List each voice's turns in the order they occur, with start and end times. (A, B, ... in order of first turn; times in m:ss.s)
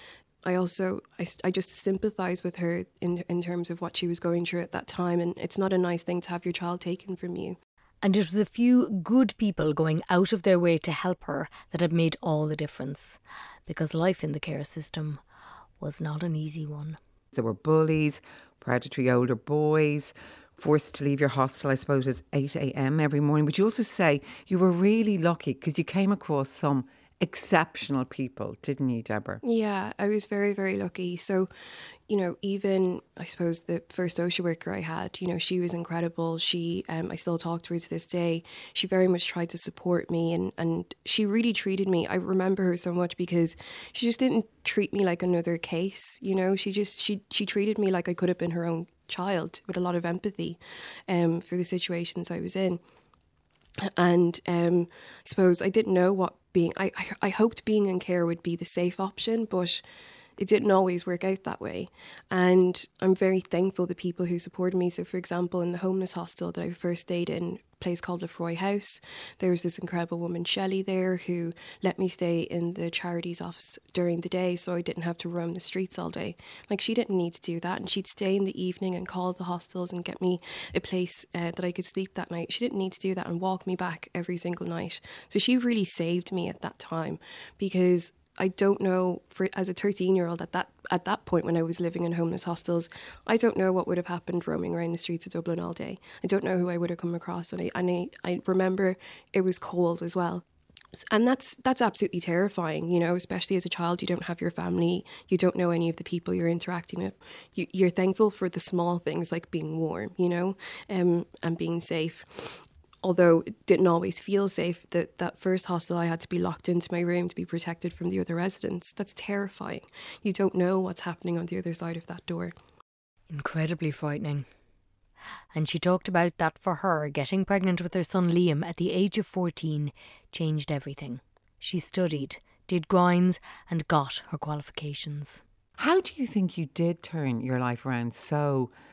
0:00.4-0:07.6 A
0:08.0-0:15.2 B
0:15.8-0:17.0 B
0:17.3-0:29.4 C
0:29.4-0:31.5 A
0:32.0-0:52.8 A
0:54.0-0:59.8 A
1:00.4-1:40.4 A
1:41.0-2:02.6 A
2:03.3-2:04.5 B
2:05.5-2:15.4 B
2:15.8-2:18.7 C